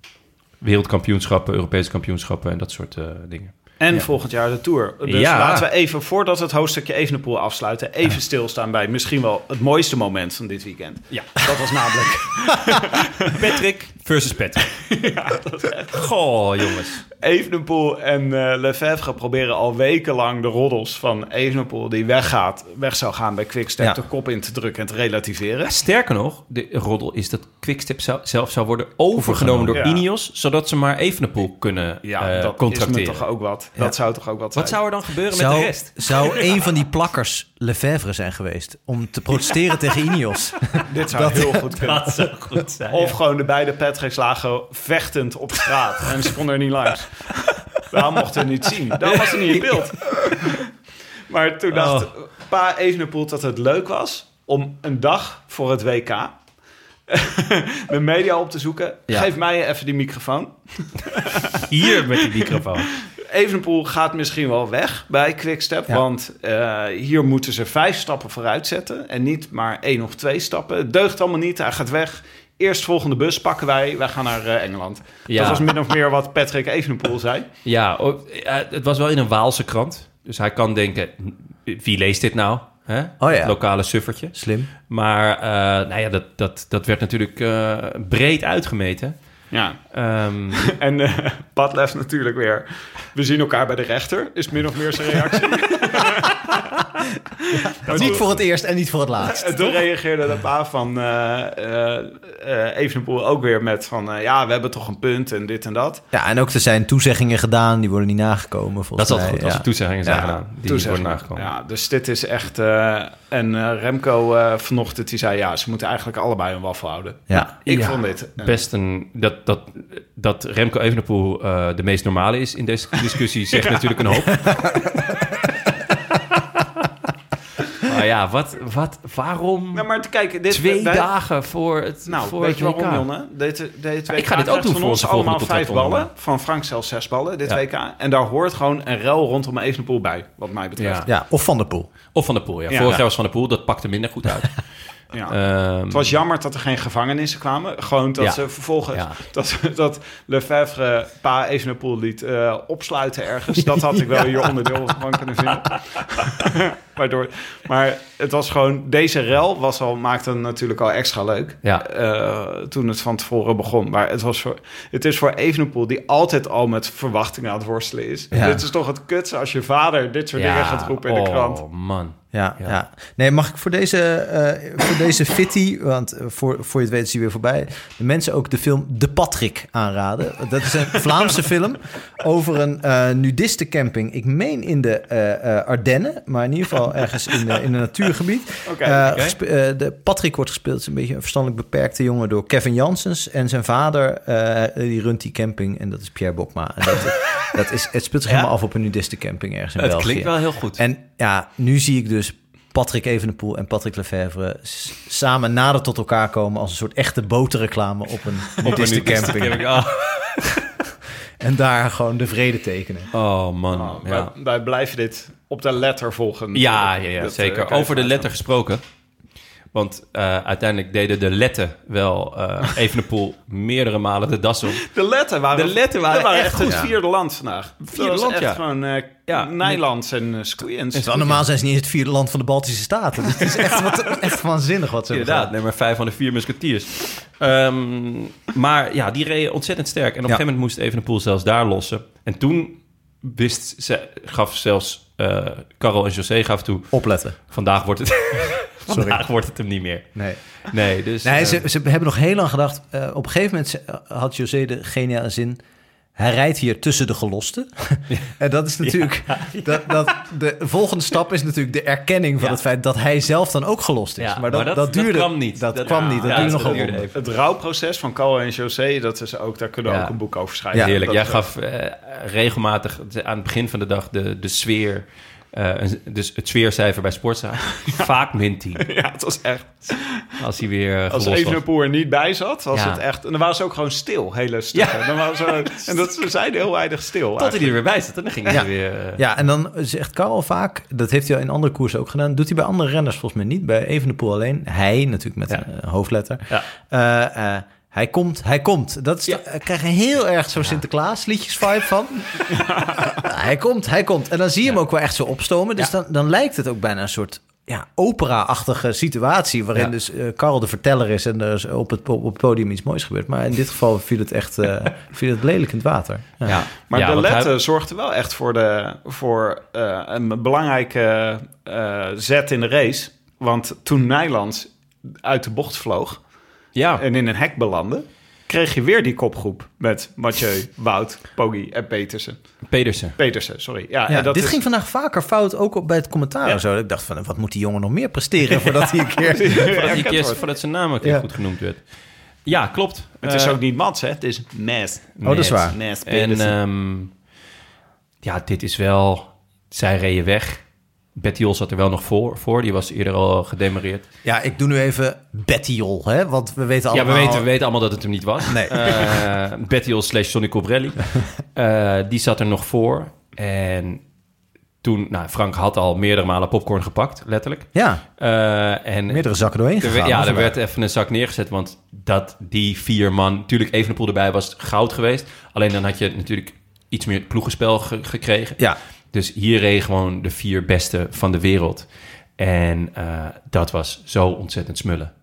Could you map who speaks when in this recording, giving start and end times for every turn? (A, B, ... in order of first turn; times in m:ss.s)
0:00.6-0:04.1 A
0:03.8-0:13.4 B
0:05.0-0:05.7 A
0:11.1-0:11.5 A
0:13.3-0:14.7 A
0:14.7-0:16.1 B
0:15.9-0:17.0 A
0:17.2-0:25.7 B
0:25.6-0:33.3 A
0:29.1-0:29.8 C
0:29.7-0:30.0 B
0:32.0-0:34.8 B
0:34.6-0:36.6 A
0:35.3-0:42.1 C
0:40.9-0:42.2 B
0:41.8-0:43.2 A
0:42.9-0:47.3 B
0:47.9-0:50.7 B
0:49.0-0:50.5 A
0:51.3-0:56.4 B
0:51.7-0:52.1 A
0:57.1-1:02.2 B
1:01.7-1:02.9 A
1:03.1-1:17.5 B
1:15.3-1:15.7 A
1:17.6-1:24.4 A
1:23.2-1:23.6 C
1:24.3-1:24.7 C
1:24.9-1:29.2 A
1:29.5-1:29.8 B
1:29.9-1:30.7 A
1:30.6-1:36.8 B
1:37.8-1:38.3 B
1:37.8-1:39.6 C
1:37.9-1:38.2 A
1:39.4-1:46.0 B
1:46.1-1:50.4 C
1:49.0-1:51.5 A
1:50.7-1:58.6 B
1:57.7-2:05.0 A
2:05.9-2:06.7 A
2:07.8-2:09.9 A
2:09.7-2:11.1 B
2:10.5-2:13.1 A
2:12.1-2:21.1 B
2:14.1-2:16.1 A
2:20.8-2:21.1 A
2:21.1-2:21.9 C
2:22.1-2:24.6 A
2:22.7-2:23.0 B
2:25.2-2:26.2 A
2:25.9-2:51.6 B
2:28.2-2:29.2 A
2:48.3-2:48.6 C
2:50.4-2:52.8 A
2:52.3-3:29.9 C
3:08.7-3:09.1 B
3:09.1-3:09.4 A
3:19.8-3:20.8 A
3:28.6-3:30.6 A
3:31.4-3:33.1 C
3:33.1-3:34.3 A
3:33.7-3:38.3 B
3:36.5-3:38.8 A
3:39.7-3:44.9 A
3:44.9-3:51.3 B
3:45.5-3:46.9 A
3:46.6-3:46.9 C
3:47.9-3:49.8 A
3:51.0-3:55.5 C
3:55.1-4:07.0 A
4:06.9-4:07.4 C
4:07.5-4:10.2 A
4:08.9-4:09.2 C
4:10.7-4:11.6 A
4:11.2-4:15.6 C
4:16.2-4:27.1 C
4:18.8-4:20.1 A
4:24.2-4:27.1 A
4:25.8-4:31.4 B
4:29.9-4:30.1 A
4:30.7-4:38.9 A
4:38.8-4:40.3 B
4:40.4-4:41.6 A
4:41.1-4:47.8 B
4:42.7-4:43.0 A
4:44.7-4:46.0 A
4:47.4-4:49.2 A
4:48.5-5:02.5 C
5:02.5-5:03.1 B
5:03.0-5:16.6 C
5:16.4-5:17.5 A
5:16.9-5:26.2 B
5:26.8-5:27.0 A
5:27.0-5:32.4 B
5:32.7-5:33.2 A
5:33.2-5:34.6 B
5:34.1-5:39.9 C
5:39.2-5:40.4 B
5:39.6-5:41.8 A
5:42.5-5:43.6 A
5:43.2-5:46.5 B
5:45.2-5:47.1 A
5:45.2-5:45.8 C
5:48.2-5:50.6 A
5:51.2-5:54.1 A
5:54.2-5:57.5 C
5:56.9-6:04.0 A
5:58.5-5:59.1 C
6:04.8-6:21.9 A
6:07.8-6:08.0 C
6:09.1-6:10.6 C
6:22.4-6:25.1 A